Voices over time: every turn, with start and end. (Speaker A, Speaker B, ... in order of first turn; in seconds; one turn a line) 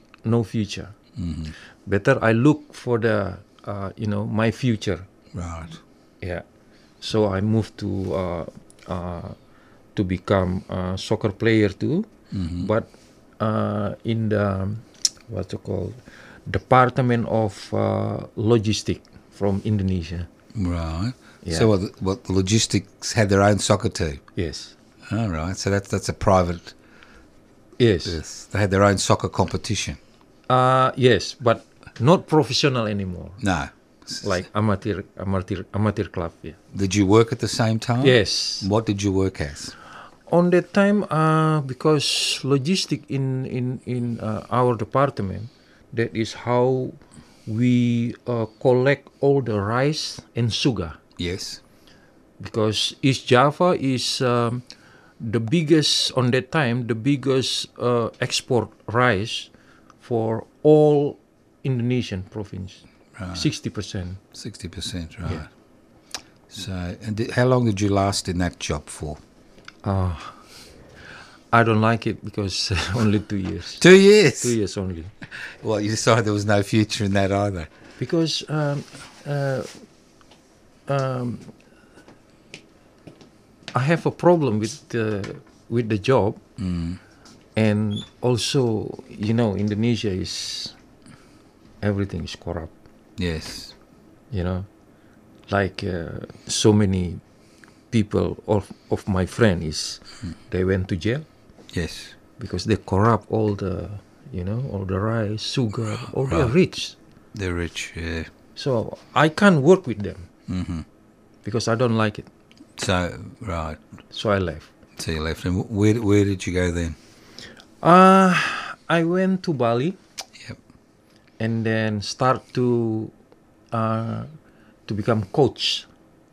Speaker A: 0.2-1.0
Speaker B: 1.2-1.5
Speaker A: 1.9-5.1
Speaker B: 5.3-5.8
Speaker A: 7.0-9.4
Speaker A: 9.9-20.3
Speaker B: 12.3-12.7
Speaker B: 20.6-24.2
Speaker A: 21.4-21.7
Speaker A: 24.4-24.8
Speaker B: 25.1-26.8
Speaker A: 27.8-28.2
Speaker B: 28.1-30.0
Speaker A: 30.5-33.4
Speaker B: 33.4-34.4
Speaker A: 34.2-36.6
Speaker B: 36.7-39.8
Speaker A: 38.0-38.7
Speaker A: 40.3-51.0
Speaker B: 51.2-51.6
Speaker A: 52.4-54.6
Speaker A: 55.2-59.5
Speaker A: 60.0-64.2
Speaker B: 63.2-63.5
Speaker B: 64.3-65.5
Speaker B: 66.5-69.2
Speaker A: 69.8-70.4
Speaker A: 71.5-73.8
Speaker B: 73.8-74.6
Speaker A: 74.4-75.1
Speaker B: 75.4-77.7
Speaker A: 78.0-79.7
Speaker A: 80.9-81.5
Speaker A: 83.7-86.4
Speaker B: 86.6-87.0
Speaker A: 87.6-90.8
Speaker A: 91.8-92.7
Speaker B: 93.2-93.7
Speaker A: 94.3-94.7
Speaker A: 95.5-97.2
Speaker A: 97.9-101.3
Speaker B: 101.7-102.2
Speaker A: 102.4-107.0
Speaker B: 106.0-106.5
Speaker B: 107.3-108.3
Speaker A: 108.6-110.3
Speaker B: 110.5-110.8
Speaker A: 111.5-112.3
Speaker B: 112.8-113.8
Speaker A: 114.1-114.7
Speaker B: 115.0-117.0
Speaker A: 117.8-120.0
Speaker A: 121.4-123.1
Speaker A: 123.7-124.3
Speaker A: 124.9-125.9